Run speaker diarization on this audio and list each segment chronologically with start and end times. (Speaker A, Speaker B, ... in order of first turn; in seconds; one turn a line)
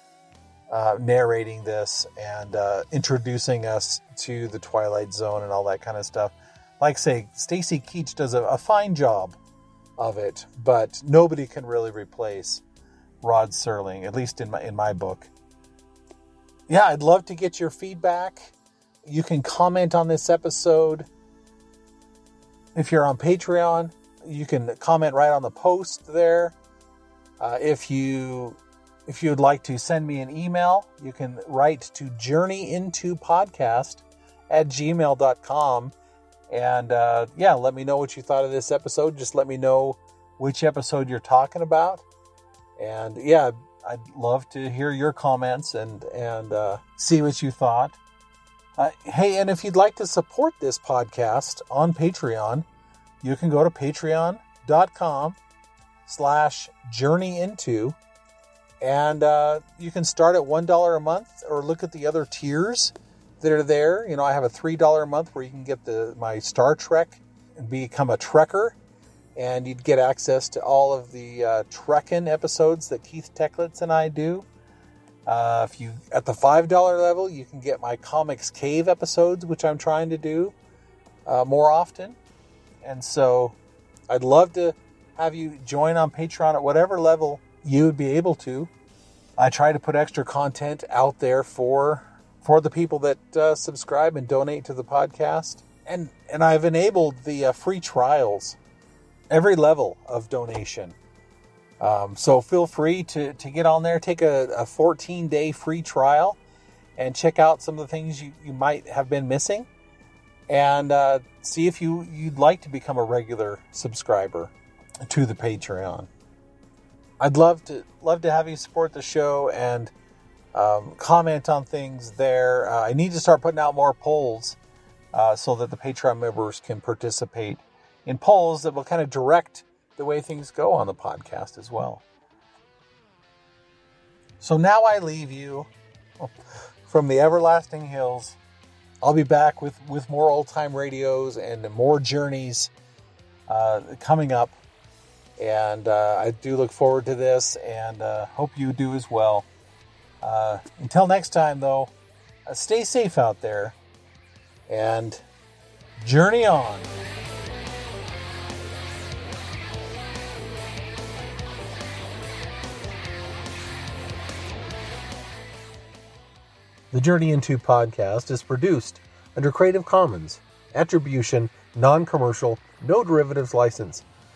Speaker A: 0.7-9.4
Speaker A: 10.0-12.6
Speaker A: 13.2-15.3
Speaker A: 16.7-18.5
Speaker A: 19.0-21.1
Speaker A: 22.7-26.5
Speaker A: 27.4-35.9
Speaker A: 36.5-42.0
Speaker A: 42.8-48.0
Speaker A: 48.8-52.6
Speaker A: 53.2-55.4
Speaker A: 56.0-58.0
Speaker A: 58.8-68.8
Speaker A: 69.3-74.5
Speaker A: 75.2-80.5
Speaker A: 81.2-82.2
Speaker A: 82.8-83.5
Speaker A: 84.1-88.7
Speaker A: 89.4-98.6
Speaker A: 99.3-101.0
Speaker A: 101.8-106.4
Speaker A: 107.0-109.7
Speaker A: 110.5-114.5
Speaker A: 115.0-116.1
Speaker A: 117.2-119.9
Speaker A: 120.5-124.6
Speaker A: 125.1-132.0
Speaker A: 134.4-135.7
Speaker A: 136.9-138.4
Speaker A: 139.0-142.7
Speaker A: 143.5-144.6
Speaker A: 145.4-149.5
Speaker A: 150.2-151.9
Speaker A: 152.5-153.8
Speaker A: 154.7-155.2
Speaker A: 156.0-156.9
Speaker A: 166.9-174.0